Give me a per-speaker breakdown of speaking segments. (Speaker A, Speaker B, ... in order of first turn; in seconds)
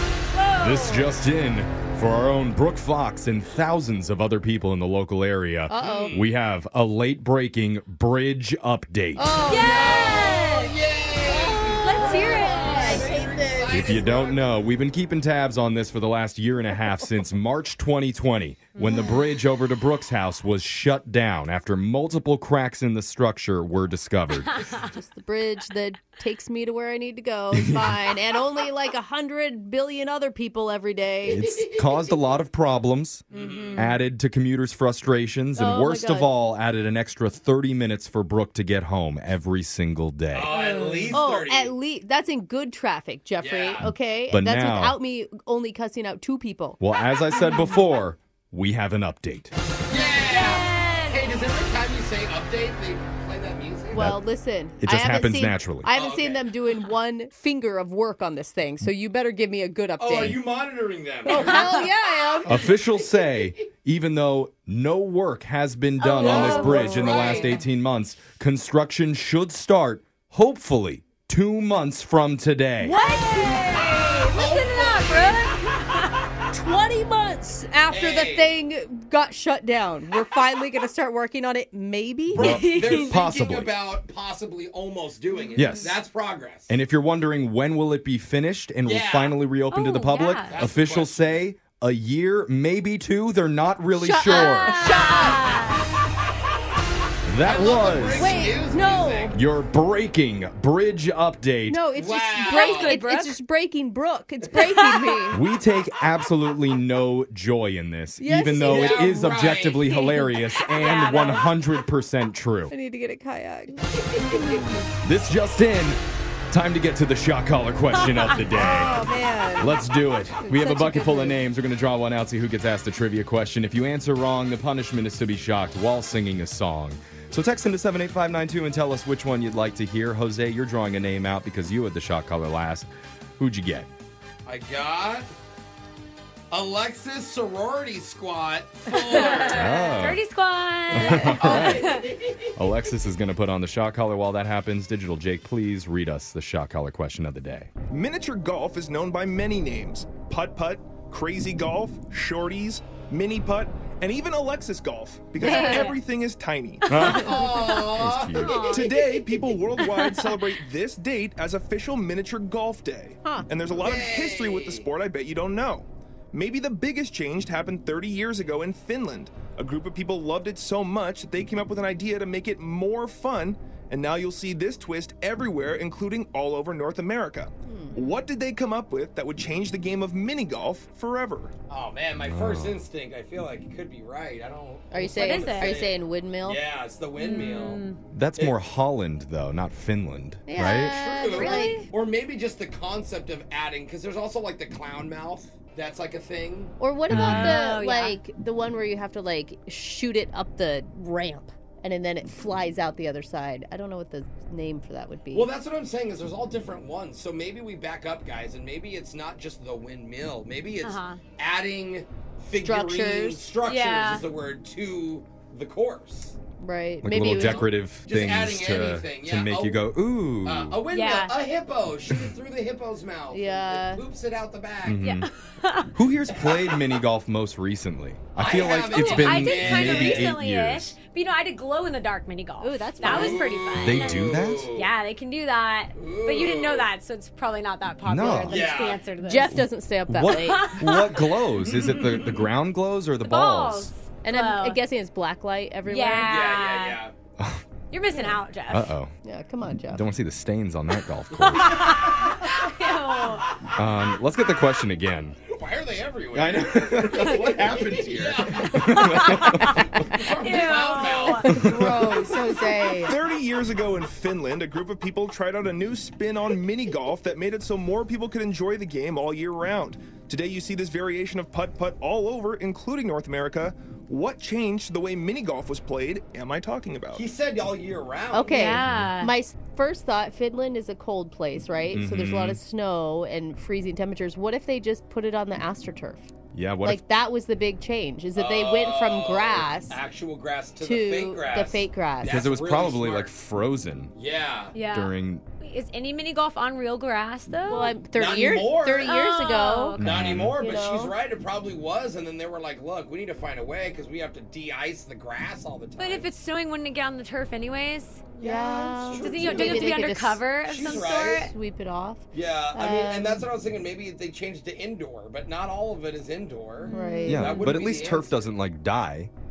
Speaker A: 0.3-1.2, 9.4-10.8, 11.3-13.1, 18.8-19.2, 33.4-33.9, 40.5-41.2, 50.2-51.4, 66.3-67.1, 72.9-76.3, 82.4-83.2, 89.7-90.6, 94.3-95.9, 102.4-103.4, 104.8-105.2, 110.0-111.5, 138.9-142.1, 155.4-156.0, 158.4-159.0, 159.8-160.3, 185.1-185.8, 187.2-188.0, 191.2-191.9, 197.1-198.2, 210.8-211.2, 213.6-214.2, 220.9-221.3, 225.0-225.9, 228.8-239.6, 240.5-241.2, 243.2-244.8, 245.8-247.0, 247.9-248.9, 251.6-253.6, 258.8-261.5, 278.5-279.3, 294.7-298.0, 299.0-300.2, 306.0-308.2, 309.1-311.5, 316.9-317.7
Speaker B: 0.6-9.3, 13.7-24.5, 27.5-28.1, 31.3-33.2, 33.8-40.5, 43.8-45.0, 46.8-49.5, 54.0-54.2, 54.8-55.9, 62.5-73.0, 82.3-83.8, 85.5-86.0, 86.7-95.0, 97.3-98.3, 99.3-101.8, 105.3-112.7, 115.0-119.0, 119.6-133.9, 139.4-140.2, 140.9-142.0, 142.6-147.7, 156.9-158.7, 182.2-182.8, 188.2-191.0, 197.1-197.6, 217.0-220.8, 224.9-225.3, 225.9-230.9, 233.8-234.7, 238.1-238.7, 239.5-243.9, 247.4-247.6, 248.7-249.1, 249.9-252.0, 253.7-255.4, 256.3-260.2, 261.5-261.9, 278.8-279.1, 281.9-282.6, 286.5-287.0, 292.2-294.1, 294.9-295.4, 300.0-300.6, 317.3-319.3
Speaker C: 5.7-6.2, 9.2-10.4, 11.2-14.0, 18.8-19.2, 24.7-31.5, 33.4-33.6, 35.6-36.3, 41.1-46.8, 53.9-60.4, 61.3-62.6, 66.0-67.6, 72.8-74.3, 76.5-82.6, 93.9-95.4, 98.1-99.3, 101.7-105.4, 108.2-109.2, 112.7-114.8, 118.5-119.8, 120.4-121.4, 158.7-159.0, 177.7-178.0, 184.9-186.6, 190.5-191.8, 196.8-205.5, 212.6-213.6, 216.6-217.7, 223.3-224.1, 232.6-233.6, 239.2-240.7, 244.2-246.3, 249.2-250.1, 261.3-263.2, 278.3-286.3, 286.8-290.0, 290.8-292.4, 297.7-300.0, 300.6-301.1, 308.4-313.4, 316.9-317.6
Speaker D: 5.8-6.3, 9.6-14.5, 33.3-33.9, 40.3-41.7, 43.4-43.9, 49.9-54.1, 56.0-56.5, 60.0-63.5, 66.2-67.7, 74.3-75.6, 77.9-78.5, 82.3-86.7, 88.8-89.4, 90.5-91.4, 97.4-99.4, 102.0-103.0, 108.6-110.0, 134.5-135.3, 136.5-139.9, 141.0-142.3, 156.9-158.5, 163.8-164.9, 181.7-187.8, 190.6-196.7, 205.3-216.4, 217.3-219.9, 220.4-225.1, 226.3-226.8, 228.4-230.4, 233.0-234.9, 235.9-236.9, 238.3-239.0, 241.7-242.5, 246.2-247.1, 251.8-252.3, 253.3-253.7, 255.5-261.5, 277.1-278.7, 288.4-293.4, 294.1-294.8, 298.1-299.2, 300.0-306.3, 308.4-311.5, 312.3-318.6
Speaker E: 147.9-157.1, 158.6-181.5, 261.5-262.4, 263.0-277.2